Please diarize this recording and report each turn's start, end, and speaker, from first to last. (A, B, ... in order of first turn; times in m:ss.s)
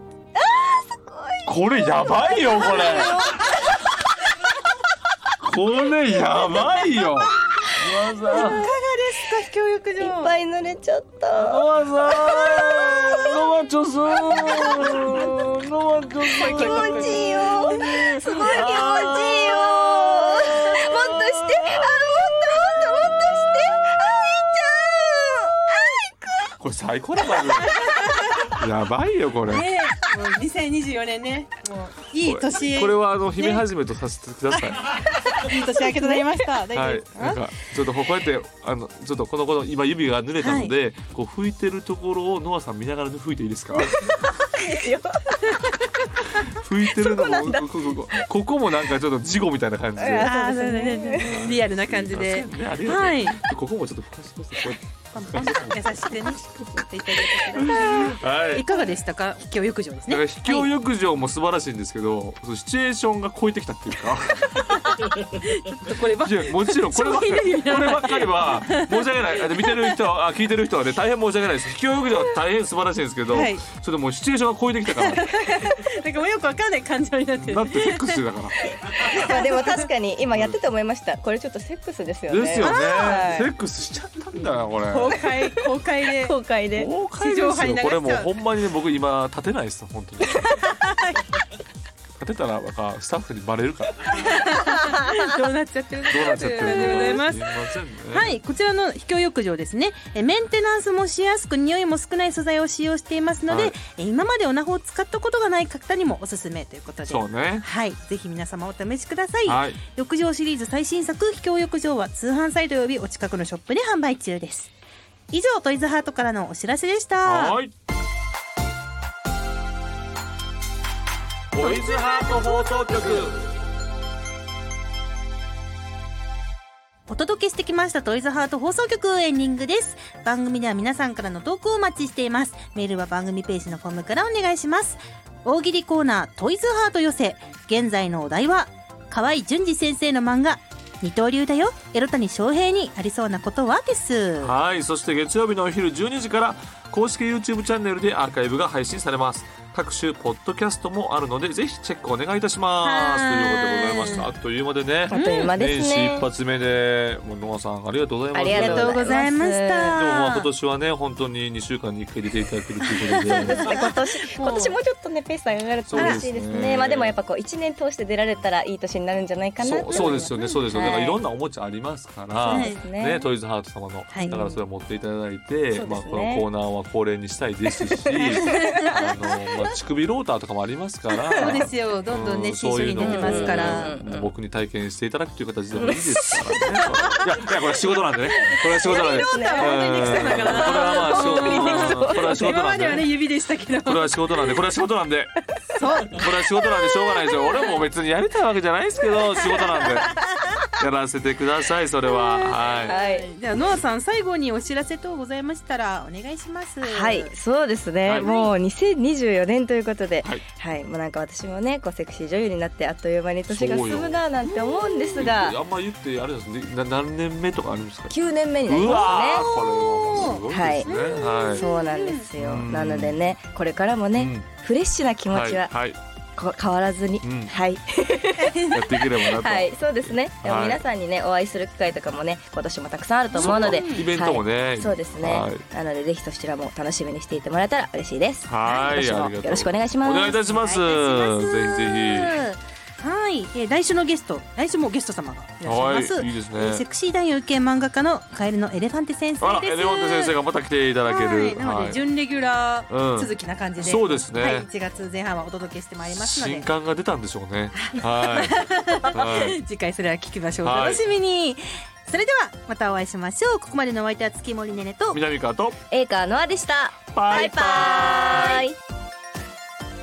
0:00.4-0:03.9 A
0:01.4-0:03.6 B
0:05.4-0:08.7 B
0:08.3-0:08.7 A
0:08.3-0:10.3 C
0:10.0-0:13.4 A
0:11.3-0:22.3 B
0:14.3-0:15.4 A
0:14.8-0:15.3 C
0:16.3-0:26.5 A
0:16.4-0:17.6 C
0:26.6-0:27.9 B
0:27.6-0:28.5 C
0:28.4-0:29.7 B
0:29.5-0:33.6 C
0:32.2-0:35.0 B
0:34.5-0:37.4 C
0:35.1-0:36.3 A
0:36.7-0:44.2 B
0:40.4-0:40.7 C
0:43.8-0:45.8 A
0:46.2-0:50.3 B
0:46.8-0:48.3 A
0:50.0-0:51.5 A
0:50.2-0:53.4 C
0:51.2-0:58.7 B
0:55.1-1:00.6 C
1:00.1-1:05.2 B
1:04.6-1:10.0 C
1:05.9-1:15.3 B
1:13.3-1:13.6 C
1:14.9-1:18.2 C
1:17.4-1:19.1 B
1:18.6-1:23.5 A
1:19.0-1:19.9 C
1:20.3-1:20.6 B
1:22.3-1:25.2 B
1:22.6-1:23.2 C
1:24.9-1:26.3 C
1:25.2-1:25.6 A
1:26.2-1:26.9 A
1:26.7-1:30.7 B
1:27.2-1:28.3 C
1:30.3-1:31.3 C
1:32.2-1:34.5 B
1:34.1-1:37.6 C
1:34.6-1:35.3 A
1:36.1-1:38.4 B
1:36.2-1:37.2 A
1:38.1-1:54.7 C
1:43.5-1:43.8 B
1:47.1-1:47.6 B
1:49.4-1:49.8 B
1:55.3-1:57.6 C
1:57.2-1:57.7 B
2:01.5-2:03.5 B
2:01.6-2:03.2 A
2:01.6-2:02.2 C
2:02.9-2:03.2 C
2:07.1-2:24.5 C
2:24.4-2:39.0 B
2:32.8-2:34.3 C
2:35.1-2:36.2 A
2:35.1-2:35.5 C
2:38.3-2:40.0 A
2:38.4-2:40.5 C
2:39.9-2:43.9 B
2:43.0-2:44.8 C
2:43.3-2:51.2 A
2:45.9-2:47.2 B
2:46.0-2:46.2 C
2:49.6-3:13.1 B
2:49.9-2:50.9 C
2:52.4-2:53.3 A
2:52.4-2:52.8 C
2:54.1-2:54.4 C
2:54.2-2:54.6 A
2:55.7-2:56.4 A
2:57.8-2:59.0 A
2:58.4-2:59.0 C
3:01.3-3:01.6 A
3:01.4-3:04.0 C
3:03.0-3:04.3 A
3:05.8-3:07.2 A
3:08.4-3:12.5 A
3:08.8-3:14.5 C
3:13.8-3:15.3 B
3:15.7-3:17.8 C
3:16.0-3:23.0 B
3:19.4-3:20.6 C
3:19.7-3:20.0 A
3:22.1-3:27.3 C
3:22.4-3:23.3 A
3:26.8-3:35.6 A
3:28.0-3:28.3 B
3:28.2-3:28.5 C
3:33.5-3:34.2 B
3:34.5-3:35.1 C
3:35.2-3:41.7 B
3:38.1-3:39.4 A
3:38.8-3:42.3 C
3:40.5-3:40.9 A
3:41.5-3:45.7 A
3:42.4-3:43.2 B
3:44.1-3:44.5 B
3:45.3-3:46.0 B
3:46.4-4:00.4 A
3:47.2-3:47.5 B
3:48.4-3:48.8 C
3:48.7-3:50.8 B
3:53.3-3:54.1 C
3:53.4-3:55.6 B
3:58.5-4:02.4 B
4:00.4-4:10.4 C
4:05.6-4:06.8 B
4:09.4-4:12.0 B
4:11.1-4:16.7 C
4:12.9-4:14.7 B
4:16.1-4:19.6 B
4:17.7-4:25.2 C
4:20.6-4:21.0 B
4:25.1-4:25.8 B
4:25.9-4:28.7 A
4:27.1-4:28.6 B
4:27.4-4:27.9 C